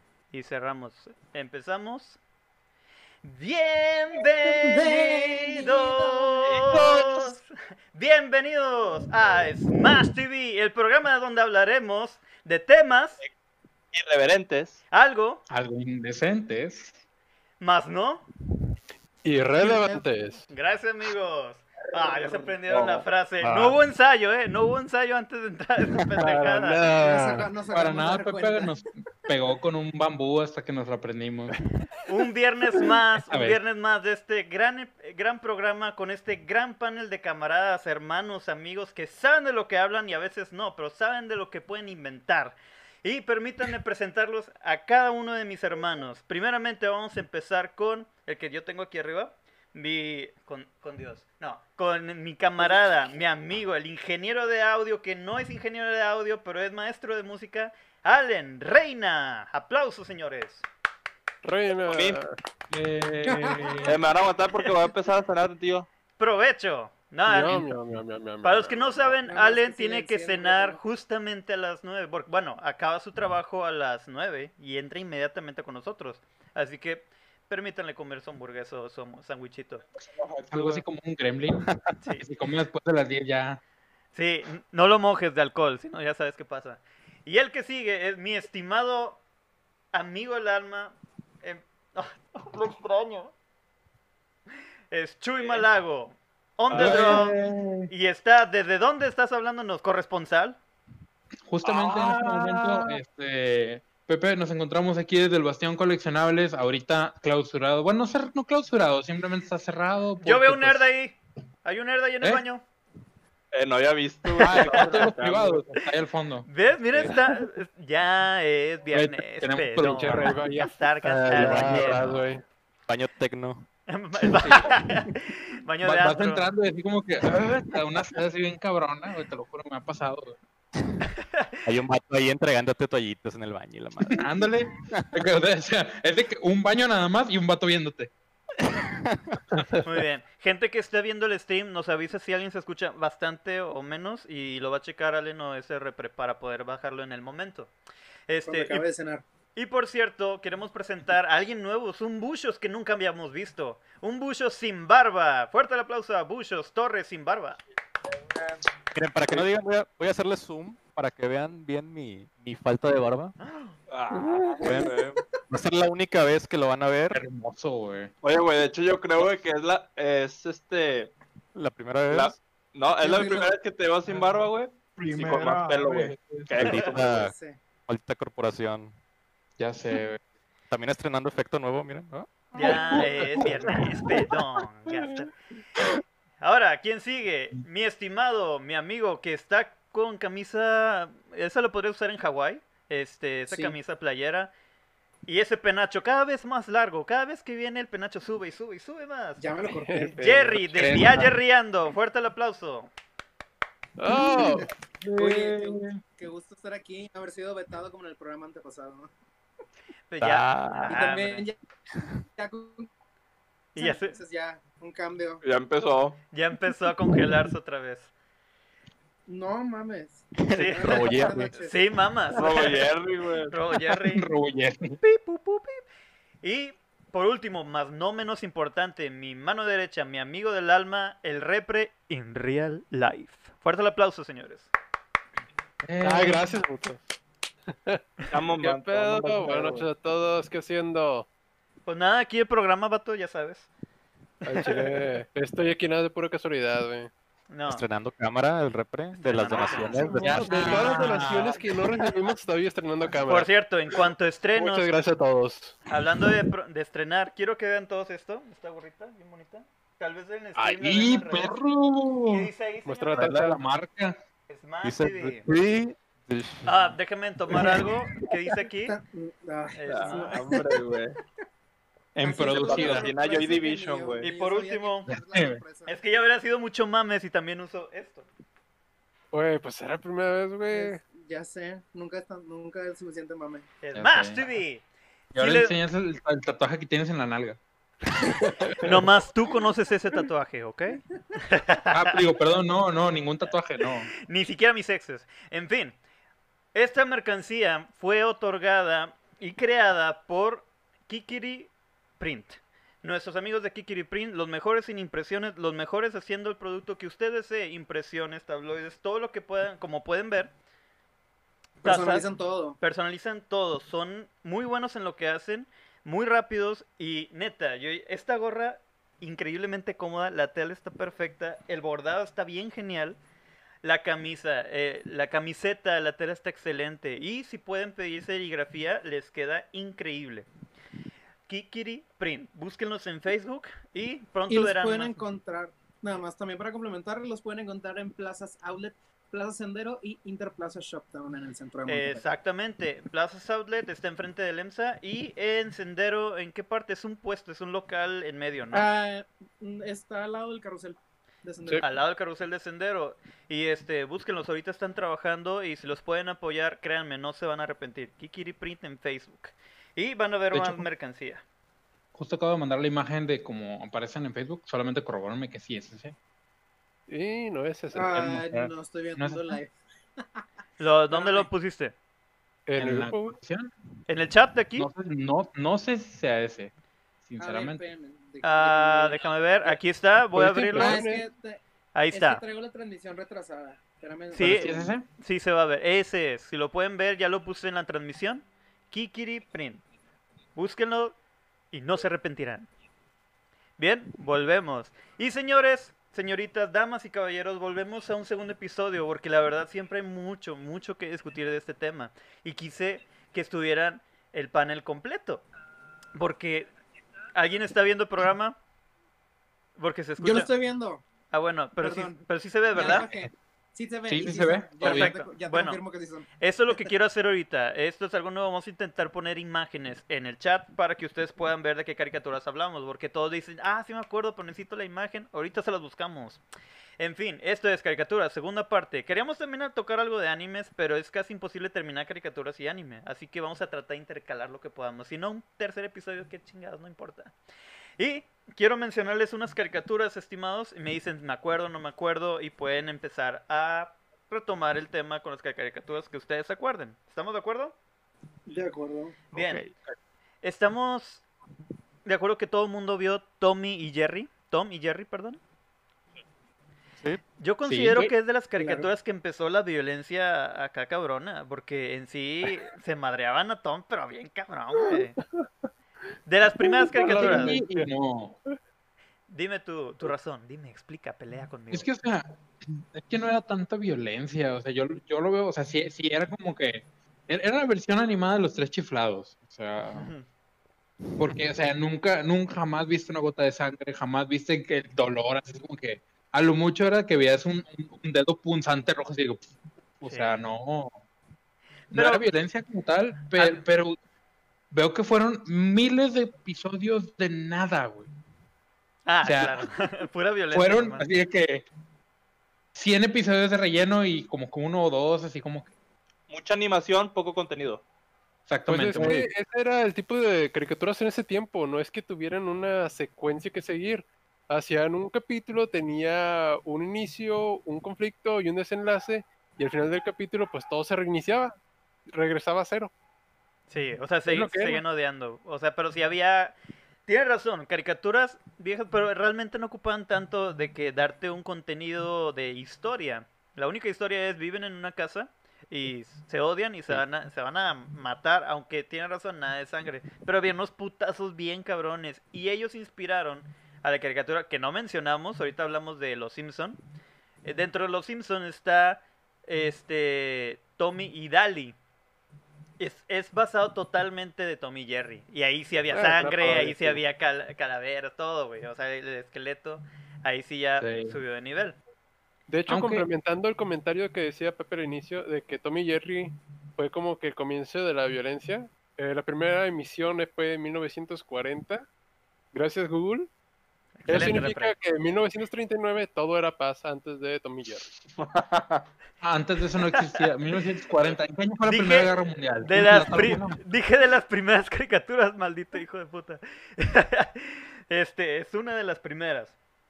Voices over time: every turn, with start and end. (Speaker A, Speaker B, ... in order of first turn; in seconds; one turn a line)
Speaker A: 0.3-2.2
Speaker A: 3.2-13.2
Speaker B: 4.5-6.5
Speaker C: 6.5-7.3
Speaker C: 13.9-14.8
Speaker A: 14.9-15.4
Speaker D: 15.5-16.9
Speaker A: 17.6-18.3
Speaker E: 19.2-20.5
Speaker B: 19.6-20.1
Speaker A: 20.5-26.8
Speaker C: 22.7-23.1
Speaker F: 23.4-23.7
Speaker E: 26.2-27.5
Speaker B: 27.0-28.7
Speaker D: 27.7-31.6
Speaker A: 32.1-60.7
Speaker D: 33.3-33.6
Speaker B: 52.6-52.9
Speaker E: 61.4-62.4
Speaker C: 61.9-62.2
Speaker D: 62.7-64.0
Speaker B: 63.2-63.8
Speaker C: 63.8-65.9
Speaker A: 66.2-67.7
Speaker E: 67.3-69.2
Speaker A: 68.4-79.8
Speaker B: 69.3-70.8
Speaker D: 80.1-83.6
Speaker A: 84.1-89.2
Speaker A: 89.9-93.3
Speaker A: 94.9-97.4
Speaker C: 96.7-97.3
Speaker D: 96.7-97.9
Speaker A: 97.9-100.6
Speaker D: 101.5-110.9
Speaker C: 101.6-103.0
Speaker A: 110.2-112.7
Speaker C: 113.5-115.6
Speaker D: 114.4-117.1
Speaker A: 116.5-122.1
Speaker D: 118.9-120.4
Speaker E: 119.8-122.5
Speaker F: 121.3-122.3
Speaker F: 122.8-123.7
Speaker A: 123.9-126.5
Speaker D: 124.4-124.8
Speaker D: 125.8-130.4
Speaker F: 131.7-134.3
Speaker D: 134.1-138.1
Speaker A: 139.8-147.7
Speaker A: 148.3-148.8
Speaker B: 148.4-149.2
Speaker A: 149.6-157.6
Speaker C: 158.3-158.6
Speaker F: 158.9-163.3
Speaker A: 163.4-163.8
Speaker C: 163.9-165.2
Speaker F: 164.6-167.2
Speaker B: 164.6-164.9
Speaker D: 167.1-168.1
Speaker C: 168.2-171.1
Speaker F: 171.6-172.4
Speaker C: 172.1-177.3
Speaker B: 173.0-173.5
Speaker D: 174.1-176.9
Speaker F: 176.6-177.3
Speaker B: 177.0-177.6
Speaker F: 177.9-178.9
Speaker D: 179.6-180.2
Speaker F: 180.7-182.7
Speaker A: 182.6-185.3
Speaker D: 182.6-183.5
Speaker A: 186.4-194.5
Speaker B: 193.5-193.8
Speaker A: 195.3-199.4
Speaker B: 199.4-200.2
Speaker E: 199.8-201.2
Speaker A: 200.2-202.9
Speaker D: 200.8-201.3
Speaker E: 204.0-204.7
Speaker B: 204.1-209.1
Speaker D: 205.0-206.0
Speaker A: 210.1-211.4
Speaker F: 210.2-211.0
Speaker B: 210.8-211.6
Speaker B: 212.4-212.9
Speaker A: 213.8-214.2
Speaker B: 213.8-215.4
Speaker C: 215.4-216.2
Speaker A: 216.3-218.1
Speaker B: 219.3-221.8
Speaker F: 220.5-221.5
Speaker A: 220.5-224.3
Speaker C: 222.3-223.5
Speaker D: 224.1-225.0
Speaker A: 225.0-225.8
Speaker A: 226.4-234.7
Speaker D: 235.8-236.6
Speaker E: 236.0-237.0
Speaker E: 237.7-241.3
Speaker C: 238.3-239.9
Speaker A: 241.9-243.7
Speaker E: 244.4-247.1
Speaker A: 247.5-247.8
Speaker F: 247.7-250.9
Speaker A: 249.1-251.1
Speaker E: 249.8-253.5
Speaker D: 250.3-251.6
Speaker A: 253.3-254.9
Speaker E: 254.6-255.8
Speaker A: 255.9-261.6
Speaker D: 260.6-262.5
Speaker A: 262.3-263.4
Speaker E: 262.9-263.6
Speaker D: 263.2-264.2
Speaker A: 264.5-265.5
Speaker F: 264.8-266.9
Speaker A: 266.6-269.0
Speaker F: 267.6-268.2
Speaker B: 268.9-271.0
Speaker A: 269.7-270.4
Speaker C: 269.9-271.2
Speaker D: 272.1-273.1
Speaker B: 272.2-275.9
Speaker C: 272.4-274.3
Speaker A: 274.2-275.1
Speaker D: 275.1-275.6
Speaker A: 275.9-278.3
Speaker E: 279.3-281.0
Speaker B: 280.7-283.7
Speaker A: 283.8-285.8
Speaker D: 283.9-284.5
Speaker D: 285.3-287.6
Speaker E: 288.6-288.9
Speaker A: 288.8-292.2
Speaker D: 291.9-294.1
Speaker A: 294.3-296.0
Speaker A: 296.7-310.5
Speaker B: 311.8-312.8
Speaker A: 311.8-312.3
Speaker A: 312.8-323.2
Speaker A: 323.8-330.5
Speaker A: 331.5-335.2
Speaker B: 334.5-342.2
Speaker A: 341.9-348.9
Speaker B: 348.7-351.9
Speaker A: 351.8-361.4
Speaker D: 360.5-360.9
Speaker D: 362.1-366.1
Speaker E: 367.1-368.2
Speaker B: 367.9-370.4
Speaker D: 368.1-369.6
Speaker A: 370.8-371.9
Speaker B: 371.1-371.5
Speaker E: 372.7-373.4
Speaker D: 372.8-373.7
Speaker A: 374.1-374.9
Speaker D: 374.8-376.7
Speaker D: 377.3-377.8
Speaker B: 377.4-379.8
Speaker A: 378.4-381.0
Speaker E: 380.3-381.3
Speaker B: 380.7-381.6
Speaker A: 381.9-382.4
Speaker B: 382.1-384.9
Speaker D: 384.3-385.1
Speaker A: 384.3-389.8
Speaker A: 390.6-391.1
Speaker A: 391.7-392.7
Speaker A: 393.8-405.4
Speaker A: 406.1-406.7
Speaker A: 407.4-408.6
Speaker A: 409.8-410.5
Speaker B: 410.2-411.1
Speaker A: 411.3-413.1
Speaker B: 411.8-416.8
Speaker D: 412.8-413.3
Speaker D: 414.1-415.1
Speaker A: 414.8-415.8
Speaker A: 416.4-426.4
Speaker A: 427.0-437.3
Speaker A: 438.0-447.8
Speaker B: 448.5-449.2
Speaker A: 449.3-449.6
Speaker F: 449.3-449.9
Speaker A: 450.4-451.3
Speaker A: 452.1-455.4
Speaker A: 457.4-465.2
Speaker D: 457.6-458.1
Speaker B: 458.6-458.9
Speaker E: 465.0-465.5
Speaker A: 466.3-467.6
Speaker E: 466.6-467.9
Speaker D: 467.1-468.4
Speaker A: 469.3-471.9
Speaker D: 471.7-480.1
Speaker A: 479.9-480.3
Speaker D: 481.2-491.0
Speaker A: 490.1-490.4
Speaker D: 491.9-494.0
Speaker A: 491.9-492.2
Speaker A: 493.3-493.6
Speaker D: 494.7-498.1
Speaker A: 499.1-501.1
Speaker D: 499.2-499.7
Speaker D: 500.5-501.7
Speaker D: 502.8-505.7
Speaker C: 506.3-507.8
Speaker D: 508.5-509.3
Speaker E: 508.7-521.5
Speaker E: 522.1-522.9
Speaker A: 523.7-546.8
Speaker E: 524.3-524.8
Speaker A: 547.4-551.8
Speaker A: 552.8-561.8
Speaker E: 555.9-557.0
Speaker D: 560.8-561.2
Speaker E: 562.5-571.9
Speaker D: 562.7-563.1
Speaker E: 572.5-573.3
Speaker A: 574.0-574.8
Speaker E: 574.1-577.9
Speaker C: 578.1-578.9
Speaker D: 579.2-583.6
Speaker A: 581.7-582.1
Speaker A: 582.6-589.5